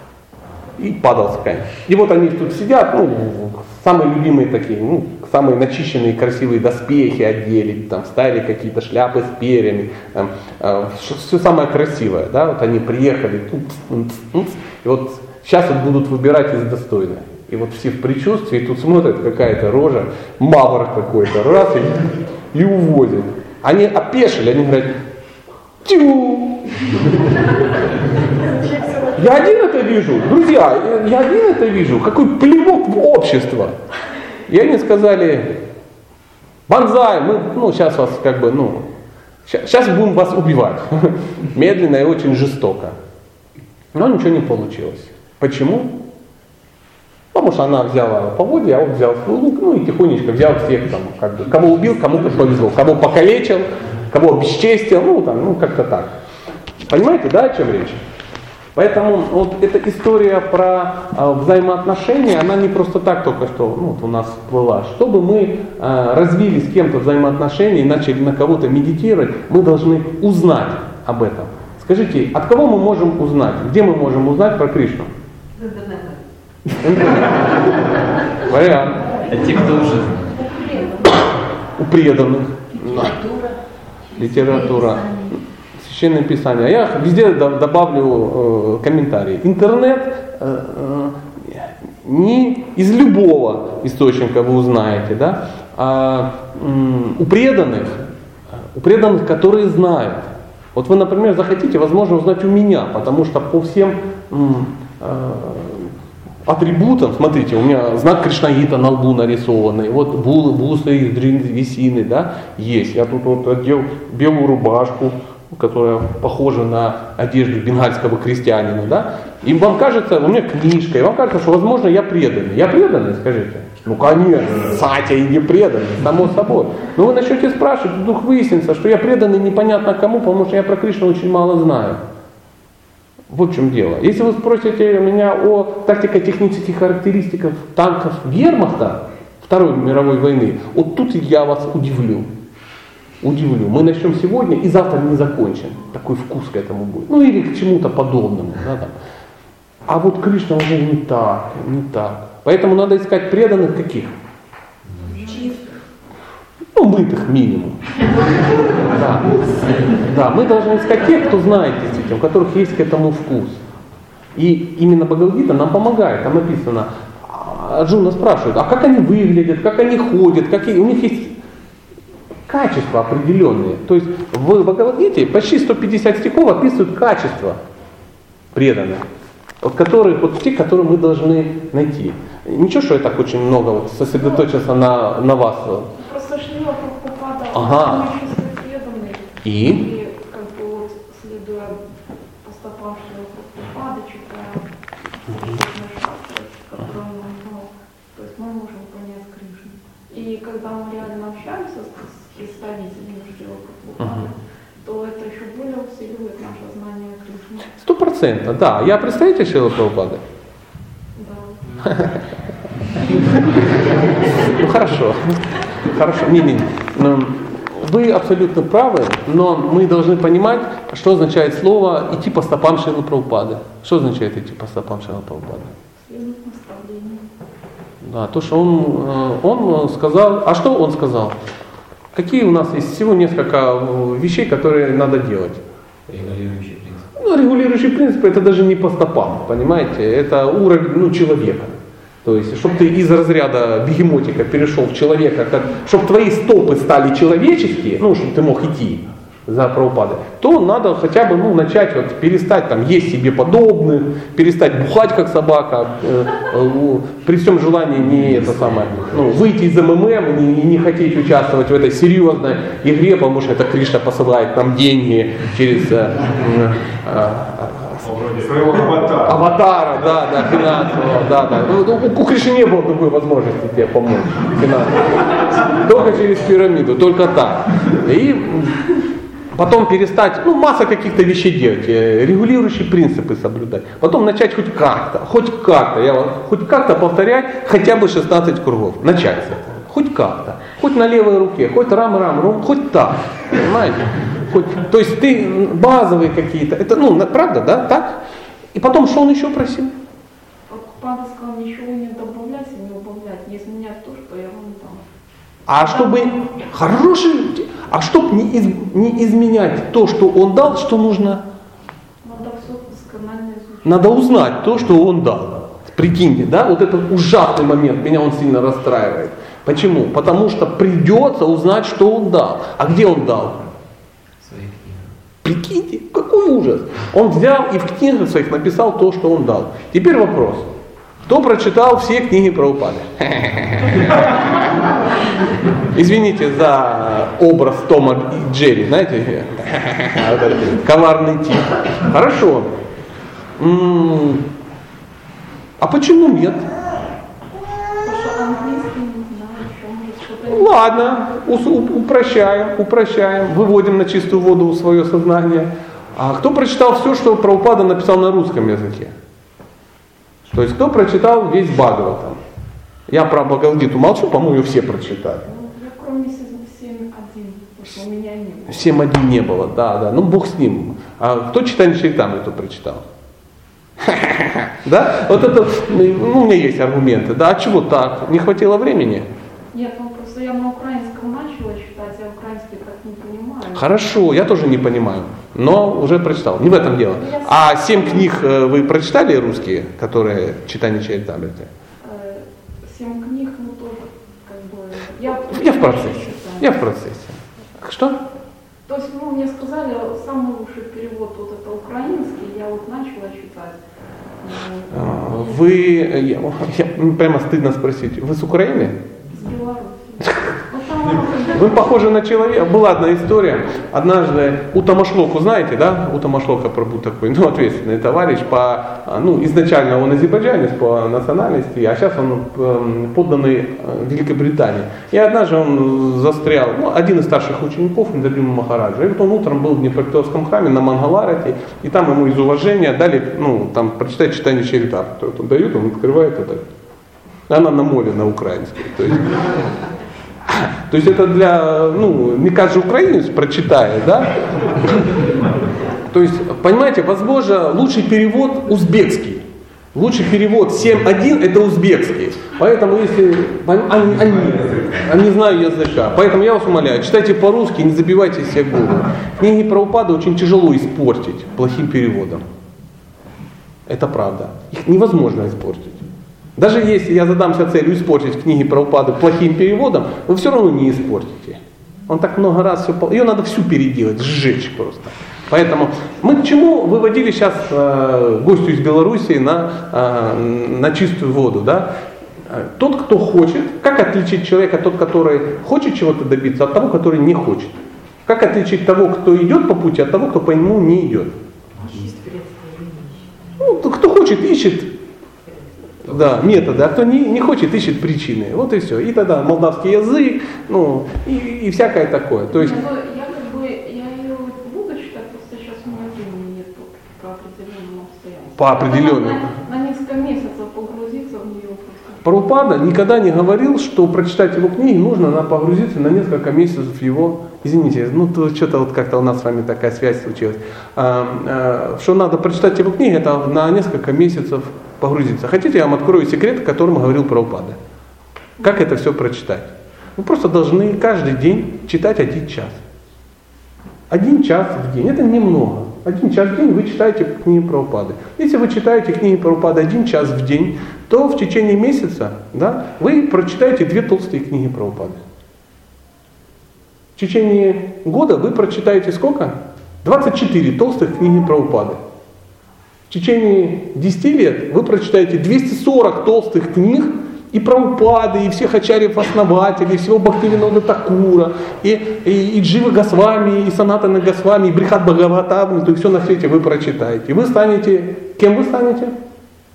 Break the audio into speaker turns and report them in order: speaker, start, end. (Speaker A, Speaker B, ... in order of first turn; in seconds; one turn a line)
Speaker A: 0.8-25.0
Speaker A: 25.8-26.6
Speaker B: 28.8-29.1
Speaker A: 29.2-33.8
Speaker A: 34.5-35.6
Speaker A: 36.7-38.9
Speaker A: 39.5-43.0
Speaker A: 44.0-45.9
Speaker A: 47.3-56.1
Speaker A: 56.8-58.0
Speaker A: 58.8-75.1
Speaker B: 75.6-76.2
Speaker A: 76.8-77.5
Speaker A: 78.4-79.0
Speaker C: 79.3-80.4
Speaker B: 80.4-81.1
Speaker A: 81.8-83.2
Speaker B: 82.8-83.5
Speaker B: 84.1-85.3
Speaker A: 84.2-85.1
Speaker A: 85.8-98.1
Speaker A: 98.7-105.9
Speaker A: 106.5-132.0
Speaker A: 133.3-142.3
Speaker A: 143.2-148.9
Speaker A: 149.9-154.2
Speaker D: 155.0-155.6
Speaker A: 156.8-157.8
Speaker A: 158.9-159.3
Speaker A: 160.0-163.6
Speaker A: 164.3-171.3
Speaker A: 172.5-177.6
Speaker A: 178.5-179.0
Speaker A: 179.6-185.9
Speaker D: 184.2-184.5
Speaker D: 185.9-191.8
Speaker A: 187.5-188.1
Speaker A: 189.4-189.8
Speaker D: 192.4-194.7
Speaker D: 195.3-207.7
Speaker A: 204.0-204.3
Speaker A: 207.8-210.2
Speaker D: 211.2-211.6
Speaker A: 211.8-212.2
Speaker A: 213.0-225.7
Speaker D: 226.0-227.2
Speaker A: 228.0-231.3
Speaker A: 232.1-235.6
Speaker C: 236.1-237.1
Speaker A: 237.2-268.1
Speaker E: 268.4-269.5
Speaker A: 268.7-278.8
Speaker A: 279.5-298.2
Speaker A: 298.8-299.9
Speaker D: 300.7-305.0
Speaker A: 305.7-311.4
Speaker D: 305.7-306.3
Speaker D: 312.2-314.2
Speaker A: 313.8-323.6
Speaker C: 324.4-325.1
Speaker A: 325.4-330.7
Speaker A: 331.3-334.4
Speaker A: 335.9-342.7
Speaker A: 343.6-344.4
Speaker A: 345.8-346.7
Speaker D: 348.0-351.4
Speaker A: 350.5-359.1
Speaker A: 360.5-362.4
Speaker A: 363.1-365.4
Speaker D: 365.4-369.0
Speaker A: 368.7-373.0
Speaker A: 374.0-379.3
Speaker D: 379.7-383.9
Speaker A: 383.7-391.7
Speaker D: 387.1-388.6
Speaker D: 392.0-396.9
Speaker A: 395.5-398.2
Speaker D: 398.9-403.8
Speaker D: 404.4-405.6
Speaker A: 404.9-409.0
Speaker D: 409.3-412.0
Speaker A: 411.5-436.6
Speaker A: 437.5-439.4
Speaker A: 440.5-444.3
Speaker A: 446.1-449.4
Speaker A: 449.9-462.4
Speaker E: 454.0-455.2
Speaker A: 463.9-466.0
Speaker A: 466.6-481.9
Speaker A: 482.5-491.3
Speaker B: 491.9-493.4
Speaker A: 493.6-494.9
Speaker A: 496.1-502.8
Speaker C: 496.1-496.8
Speaker D: 502.5-512.2
Speaker A: 508.6-509.4
Speaker A: 512.2-527.8
Speaker A: 528.6-532.8
Speaker A: 534.1-545.2
Speaker A: 547.2-552.0
Speaker A: 553.1-569.1